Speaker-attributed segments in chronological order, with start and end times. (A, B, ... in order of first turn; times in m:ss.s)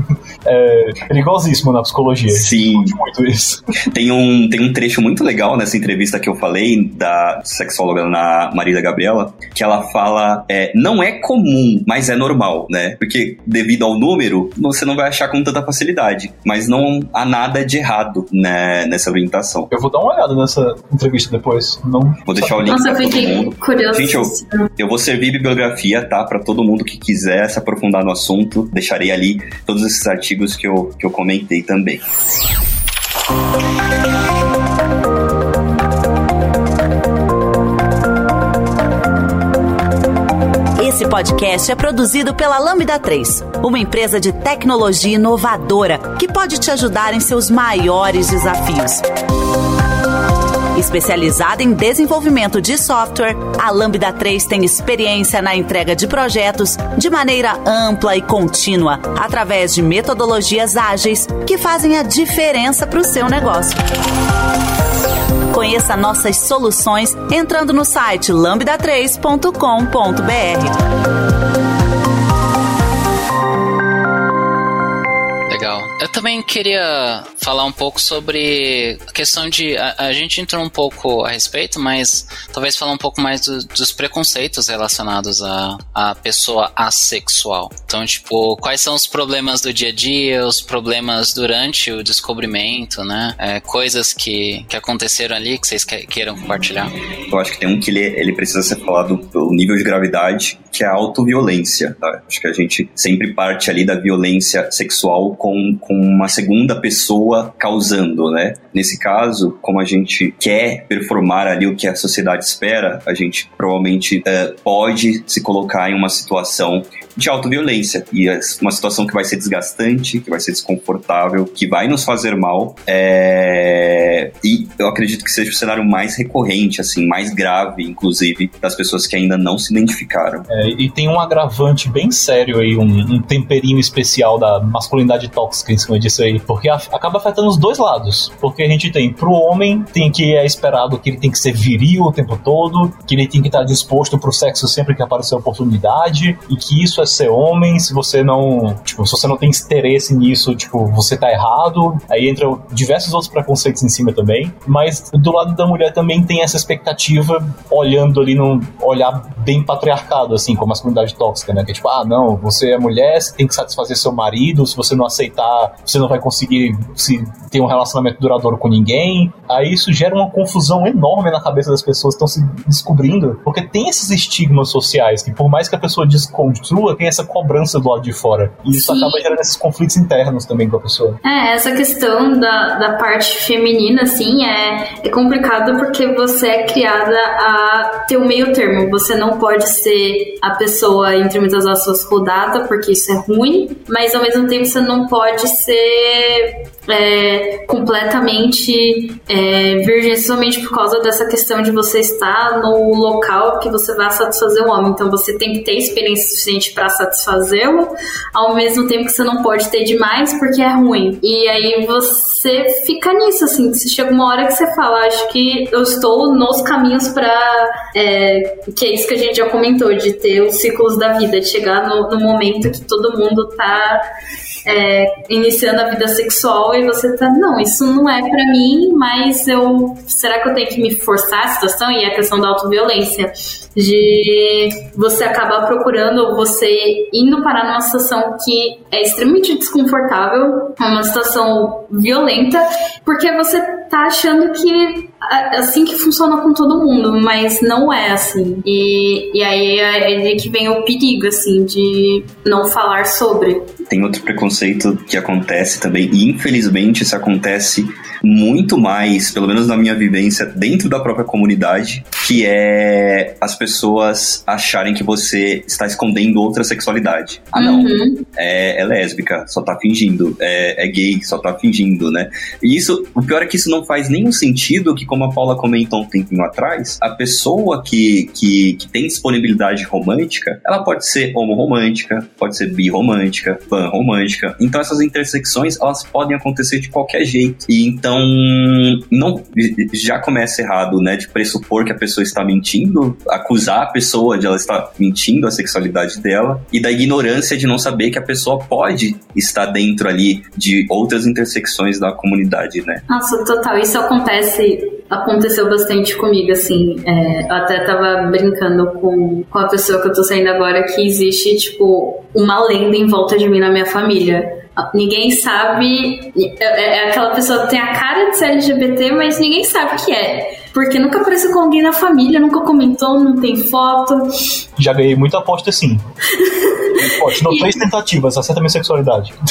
0:00.4-0:03.8 A
0:02.3-0:03.0 B
0:03.9-0:19.7 B
0:19.7-0:22.7 A
0:22.3-0:32.0 B
0:22.6-0:24.7 C
0:40.8-0:49.0 D
0:50.8-1:03.8 D
1:05.5-1:10.8 D
1:15.5-1:36.9 E
1:37.3-2:10.5 B
2:10.5-3:01.2 A
2:58.7-2:59.2 C
3:01.2-3:44.0 C
3:44.7-4:13.7 C
4:13.9-5:03.0 B
4:27.6-4:28.2 C
5:03.1-5:24.3 C
5:24.8-5:26.0 A
5:26.4-5:27.7 C
5:27.0-5:29.4 A